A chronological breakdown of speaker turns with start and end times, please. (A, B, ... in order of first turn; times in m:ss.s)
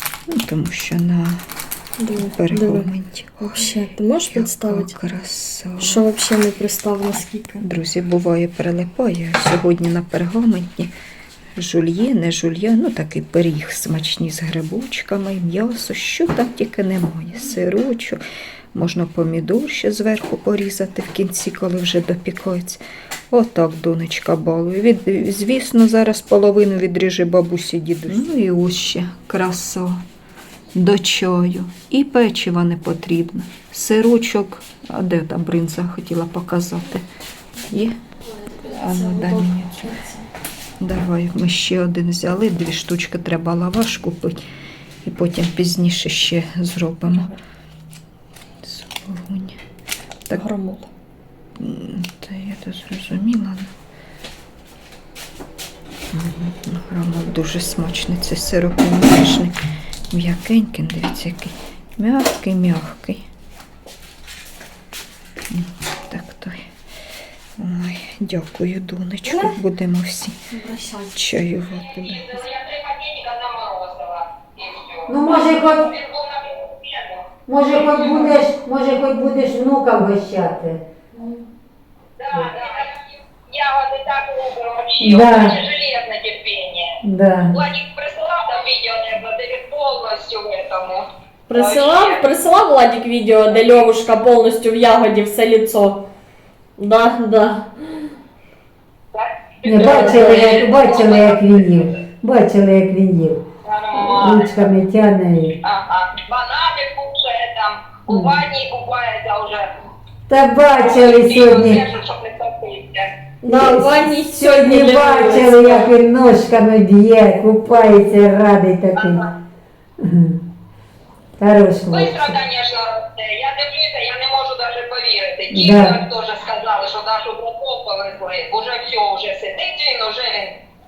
0:00.3-0:01.4 A
0:02.0-0:02.9 B
0:02.3-0:03.7 A
0:03.5-0:05.0 B
0:04.3-0:06.0 A
0:05.8-0:07.6 B
0:07.6-0:10.9 A
0:11.6-0:18.2 A
0:18.7-0:30.0 A
0:30.7-0:37.0 A
0:37.7-0:38.0 A
0:38.3-0:40.3 B
0:38.6-0:39.9 A
0:40.8-0:44.4 A
0:45.0-0:47.3 A
0:47.0-0:47.4 B
0:48.6-0:49.6 A
0:50.3-0:50.9 B
0:51.6-0:53.7 A
0:56.1-0:59.5 A
1:00.1-1:03.2 A
1:05.5-1:06.7 A
1:07.6-1:10.5 A
1:10.5-1:11.2 B
1:11.1-1:12.4 A
1:11.9-1:18.3 C
1:15.1-1:15.9 D
1:17.5-1:20.8 D
1:21.1-1:21.4 B
1:22.2-1:27.0 C
1:22.3-1:22.6 D
1:25.0-1:25.6 D
1:27.0-1:27.6 D
1:27.5-1:32.2 C
1:31.5-1:36.0 B
1:36.8-1:37.7 B
1:39.1-1:41.8 C
1:39.6-1:45.6 D
1:39.8-1:40.5 B
1:43.6-1:44.6 C
1:45.6-1:49.7 C
1:48.1-1:48.4 D
1:50.3-1:51.8 D
1:50.8-1:53.1 C
1:53.4-1:59.3 D
1:53.5-1:55.9 B
1:59.0-1:59.2 C
2:00.0-2:00.4 D
2:01.4-2:02.4 D
2:01.9-2:10.5 C
2:05.5-2:06.0 D